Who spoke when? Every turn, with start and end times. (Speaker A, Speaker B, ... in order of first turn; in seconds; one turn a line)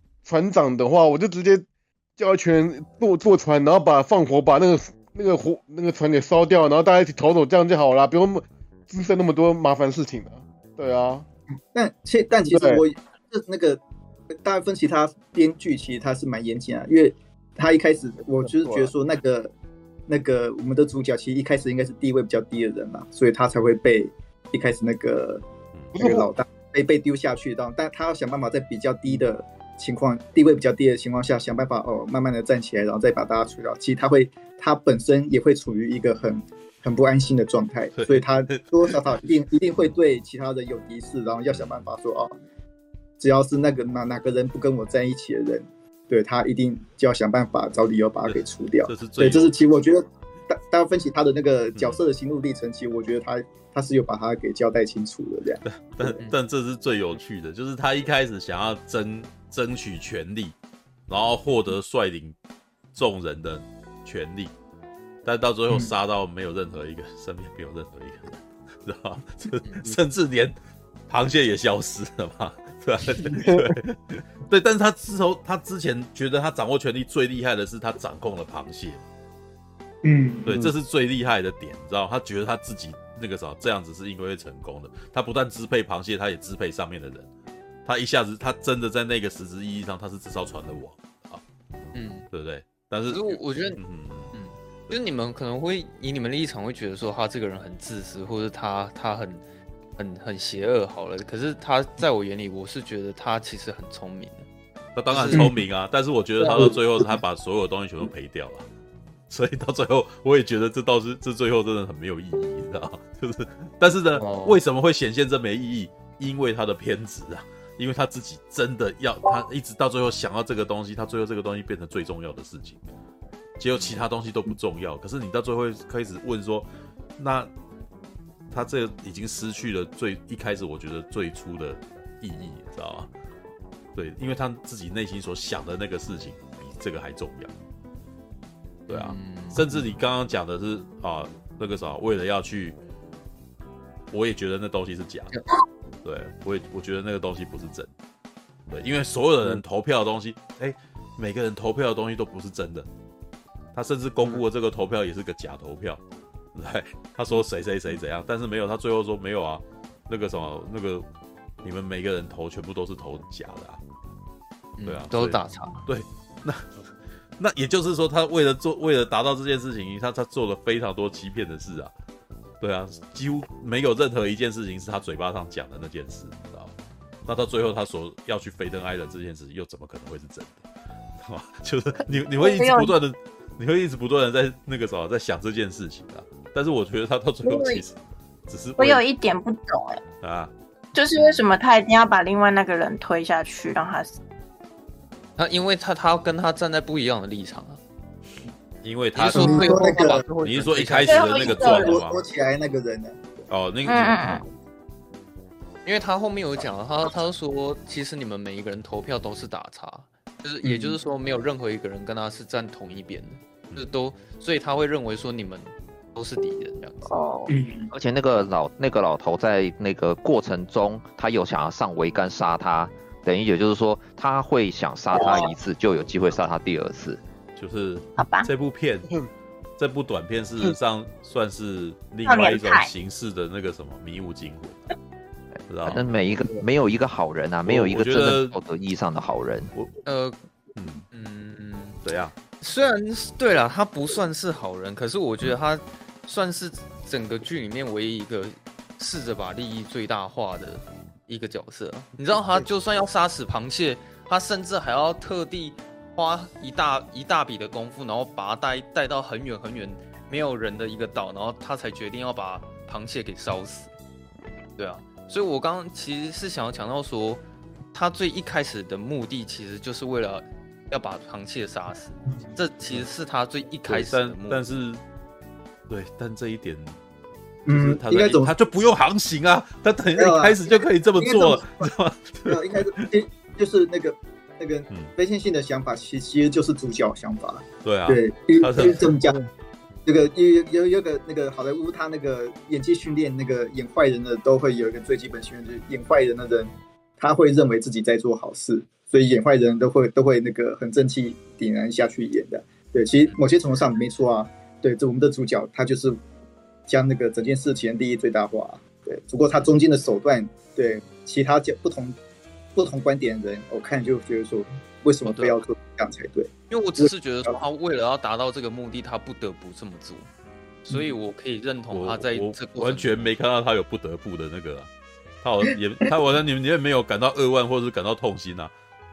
Speaker A: 0.2-1.6
Speaker A: 2.2-11.3
Speaker B: 11.7-13.8
Speaker A: 12.5-12.8
Speaker B: 14.4-19.5
Speaker A: 18.4-18.9
Speaker B: 20.1-25.4
Speaker A: 25.9-26.3
Speaker B: 26.0-42.3
Speaker C: 38.0-39.0
Speaker C: 41.5-41.9
Speaker B: 43.2-56.1
Speaker C: 48.2-49.6
Speaker C: 51.7-52.0
Speaker C: 55.6-60.5
Speaker C: 61.1-62.4
Speaker C: 62.9-64.5
Speaker C: 65.2-70.5
Speaker D: 69.6-70.0
Speaker C: 71.1-79.0
Speaker A: 73.3-73.7
Speaker B: 80.0-80.6
Speaker C: 80.4-87.3
Speaker C: 87.8-91.4
Speaker D: 91.9-92.3
Speaker C: 92.3-94.3
Speaker D: 93.1-93.8
Speaker D: 94.3-99.4
Speaker D: 100.0-104.5
Speaker C: 105.0-108.7
Speaker D: 105.1-105.5
Speaker D: 106.4-106.8
Speaker C: 109.3-122.8
Speaker D: 114.1-114.6
Speaker C: 123.6-127.5
Speaker C: 128.5-133.1
Speaker C: 133.9-137.5
Speaker C: 138.9-142.8
Speaker D: 138.9-139.8
Speaker C: 144.1-145.3
Speaker C: 146.0-147.9
Speaker C: 148.7-152.9
Speaker C: 153.7-156.0
Speaker C: 156.6-161.1
Speaker C: 161.6-163.8
Speaker D: 164.8-165.8
Speaker C: 164.9-166.7
Speaker C: 167.4-171.9
Speaker C: 172.6-176.7
Speaker C: 177.2-180.6
Speaker C: 181.2-187.9
Speaker E: 182.4-182.9
Speaker E: 187.4-187.8
Speaker C: 188.5-189.0
Speaker E: 188.8-190.0
Speaker C: 190.2-190.5
Speaker E: 190.9-194.1
Speaker C: 191.2-191.4
Speaker D: 195.4-197.8
Speaker C: 198.8-199.8
Speaker D: 199.2-201.5
Speaker B: 199.3-200.2
Speaker C: 200.4-202.2
Speaker E: 201.0-201.9
Speaker B: 201.3-203.2
Speaker C: 203.5-204.4
Speaker E: 203.8-204.4
Speaker D: 205.8-217.1
Speaker B: 210.6-211.0
Speaker E: 217.1-217.5
Speaker B: 217.5-217.9
Speaker F: 217.9-227.2
Speaker E: 225.1-225.5
Speaker C: 227.6-229.1
Speaker E: 228.2-228.5
Speaker C: 229.8-234.9
Speaker E: 232.3-232.9
Speaker C: 235.7-236.0
Speaker F: 235.8-239.7
Speaker C: 237.6-238.6
Speaker C: 239.7-240.0
Speaker D: 240.1-240.4
Speaker C: 240.8-241.1
Speaker D: 241.1-242.0
Speaker C: 242.0-242.4
Speaker D: 242.6-263.9
Speaker D: 264.8-267.4
Speaker D: 267.9-274.6
Speaker C: 273.9-275.0
Speaker C: 275.9-277.0
Speaker B: 277.6-278.5
Speaker C: 277.7-283.1
Speaker B: 280.2-281.9
Speaker B: 282.4-289.4
Speaker C: 287.8-289.1
Speaker A: 288.9-289.5
Speaker B: 290.1-306.2
Speaker B: 306.9-312.1
Speaker B: 312.7-317.6
Speaker D: 315.2-315.6
Speaker D: 316.7-320.3
Speaker D: 320.8-323.3
Speaker C: 321.9-324.9
Speaker C: 325.4-328.7